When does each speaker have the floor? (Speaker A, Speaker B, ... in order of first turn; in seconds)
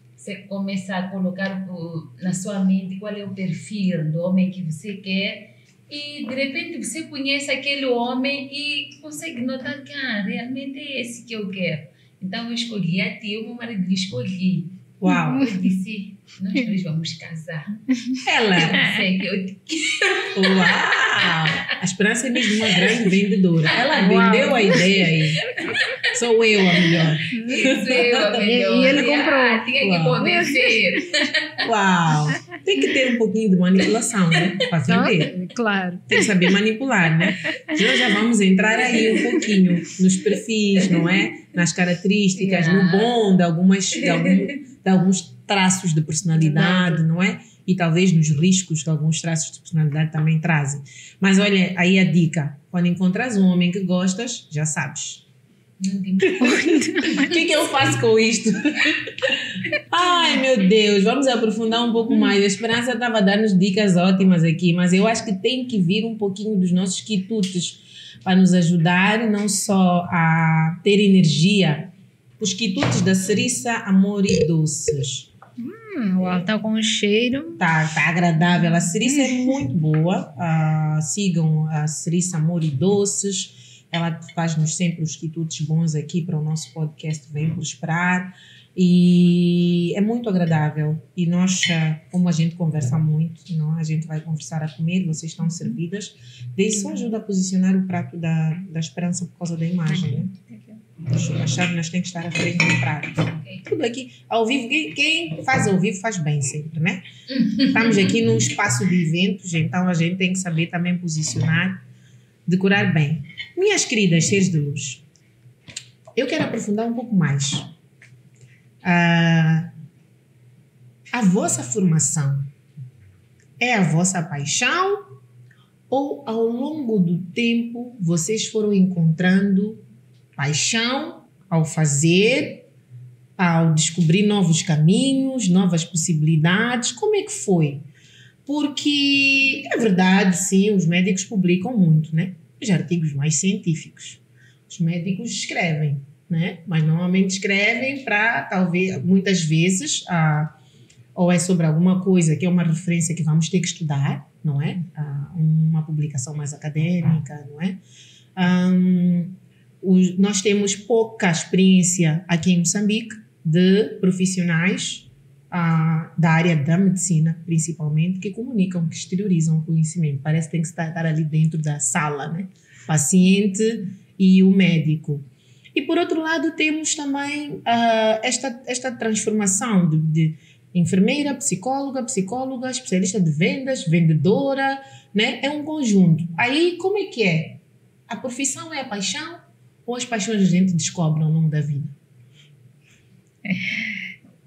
Speaker A: 0.2-14.7, 15.3-17.8, 18.6-21.6, 26.8-31.6, 42.4-43.1, 46.4-47.0, 55.8-57.3, 103.3-103.7, 107.3-108.2
Speaker B: 15.0-15.5, 18.2-18.9, 20.3-25.6, 26.1-28.5, 29.8-30.2, 31.6-35.3, 36.1-55.2, 57.0-75.3, 77.6-100.3, 101.0-107.0, 107.6-111.8, 112.5-115.0, 116.2-117.7, 118.8-119.7, 121.1-122.5, 123.6-125.1, 125.9-129.8, 130.4-132.7, 133.4-137.9, 138.5-150.5, 151.2-157.8, 158.4-192.0
Speaker C: 24.0-25.1, 27.3-27.8, 28.4-31.0, 34.9-36.3, 56.3-57.4, 75.6-77.6, 99.9-100.8, 193.5-193.9